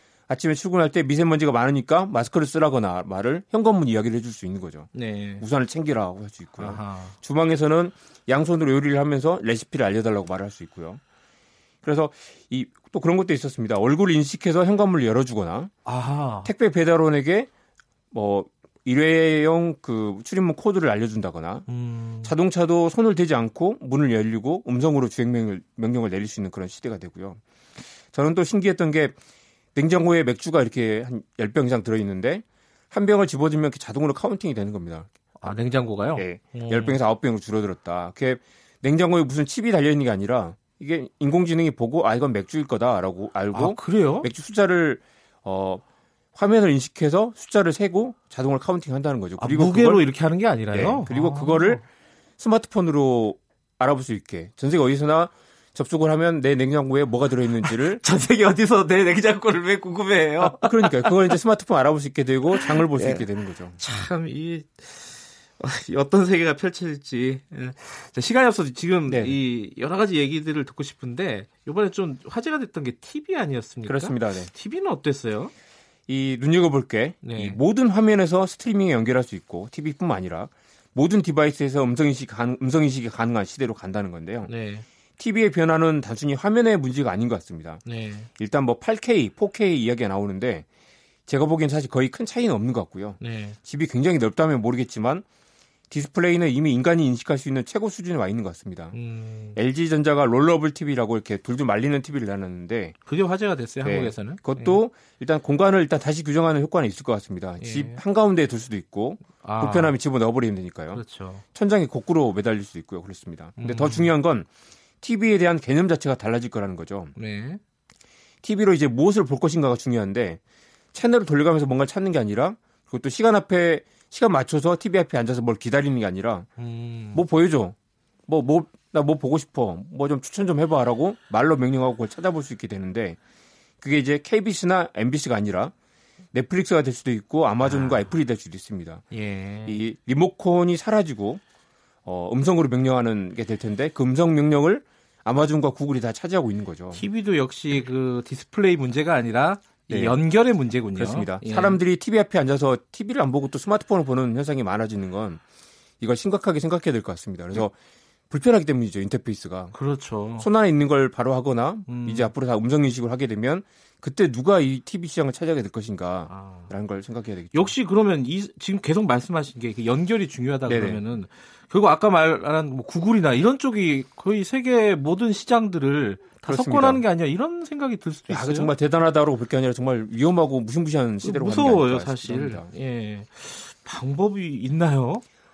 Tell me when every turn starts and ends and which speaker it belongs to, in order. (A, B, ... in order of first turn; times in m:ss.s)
0:00.3-0:04.9 A
0:04.9-0:05.4 B
0:05.4-0:11.0 A
0:06.6-0:07.2 B
0:11.8-0:15.7 A
0:15.9-0:16.5 B
0:16.4-0:17.5 A
0:18.1-0:21.7 A
0:21.7-0:22.3 B
0:22.2-0:27.4 A
0:28.1-0:29.2 A
0:29.8-0:35.1 A
0:35.4-0:37.0 B
0:36.2-0:45.8 A
0:43.5-0:44.3 B
0:46.4-0:50.0 A
0:49.4-0:51.8 B
0:50.7-0:51.8 A
0:52.4-0:58.0 A
0:57.6-1:01.4 B
1:00.4-1:03.8 A
1:02.5-1:03.2 B
1:03.8-1:15.5 B
1:09.1-1:09.4 A
1:13.9-1:14.5 A
1:16.1-1:24.5 A
1:17.2-1:17.6 B
1:24.5-1:24.8 B
1:25.2-1:27.8 A
1:27.8-1:28.3 B
1:28.4-1:30.7 A
1:31.3-1:35.2 A
1:33.2-1:33.6 B
1:35.9-1:39.0 A
1:38.9-1:39.6 B
1:39.6-1:43.0 A
1:43.1-1:44.8 B
1:43.8-1:51.0 A
1:47.6-1:48.0 B
1:49.4-1:50.0 B
1:50.9-1:51.4 B
1:51.5-1:54.5 A
1:53.6-1:54.1 B
1:55.0-1:57.1 A
1:57.2-1:57.6 B
1:58.4-2:00.4 A
2:00.9-2:06.5 A
2:06.6-2:07.2 B
2:07.1-2:07.8 A
2:08.3-2:13.2 A
2:13.8-2:15.7 A
2:16.3-2:19.0 A
2:17.6-2:18.1 B
2:19.1-2:19.8 B
2:19.7-2:21.4 A
2:22.0-2:27.1 A
2:26.9-2:31.8 B
2:29.9-2:30.2 A
2:31.0-2:35.4 A
2:36.0-2:37.7 A
2:38.3-2:39.8 A
2:39.7-2:40.5 B
2:40.4-2:47.8 A
2:41.9-2:42.3 B
2:46.3-2:46.7 B
2:47.5-2:58.7 B
2:50.7-2:51.0 A
2:56.4-2:57.0 A
2:58.3-3:02.7 A
3:01.2-3:05.2 B